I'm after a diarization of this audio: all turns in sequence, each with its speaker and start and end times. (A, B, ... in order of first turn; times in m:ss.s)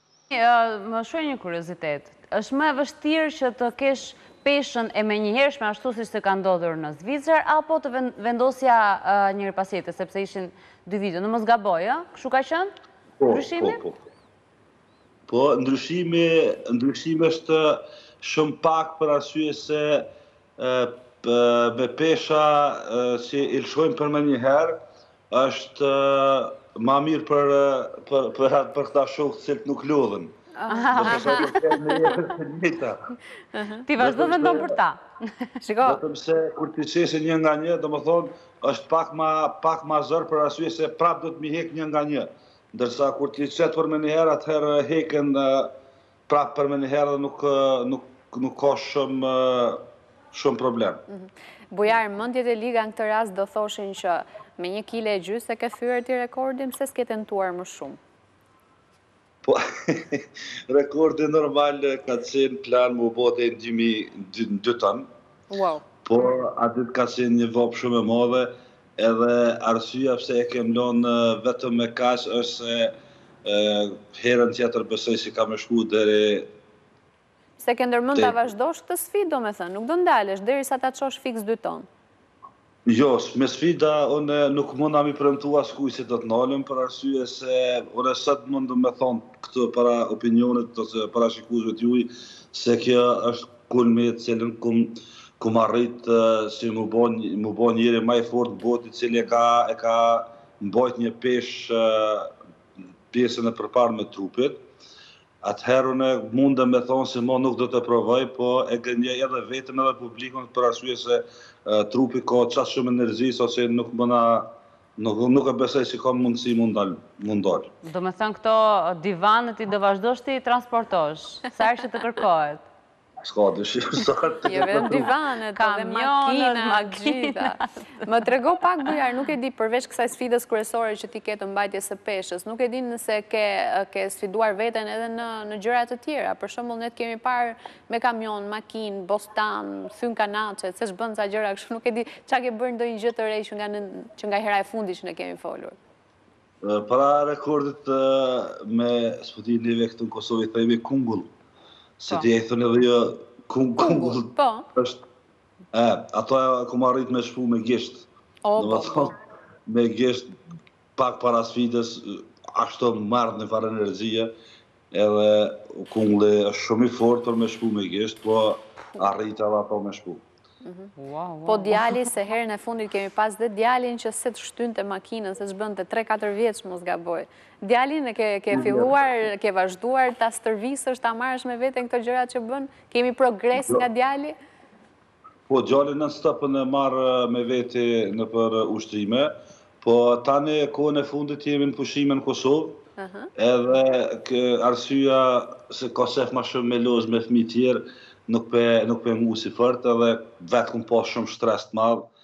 0:00.3-0:12.7 A
0:13.2-0:14.0 B
0:13.3-0:13.8 A
0:15.3-0:24.8 B
0:25.3-0:30.3 B
0:30.6-0:32.2 C
0:30.7-0:31.5 A
0:31.0-0:33.1 B
0:33.5-0:33.9 C
0:33.9-0:35.0 A
0:34.0-0:34.8 B
0:35.6-0:36.0 C
0:35.8-0:45.7 B
0:46.3-0:51.0 B
0:51.1-0:58.0 C
0:59.4-1:05.1 B
1:05.5-1:05.8 C
1:06.0-1:16.5 B
1:17.6-1:21.9 C
1:22.9-1:42.3 B
1:43.1-1:44.6 B
1:45.4-1:57.7 B
1:57.8-2:02.6 A
2:03.2-2:05.1 B
2:04.5-2:25.8 C
2:05.6-2:08.0 A
2:26.6-2:31.3 B
2:32.0-2:35.0 B
2:33.8-2:34.7 C
2:35.7-2:39.2 B
2:38.4-2:39.1 C
2:39.7-2:40.3 B
2:41.0-2:44.3 B
2:44.9-2:50.2 B
2:50.6-2:50.9 C
2:51.0-2:52.0 A
2:51.5-3:04.4 C
2:58.5-2:58.9 B
3:03.6-3:03.8 B
3:05.5-3:09.3 B
3:09.8-3:12.8 B
3:13.0-3:13.3 C
3:13.4-3:22.1 B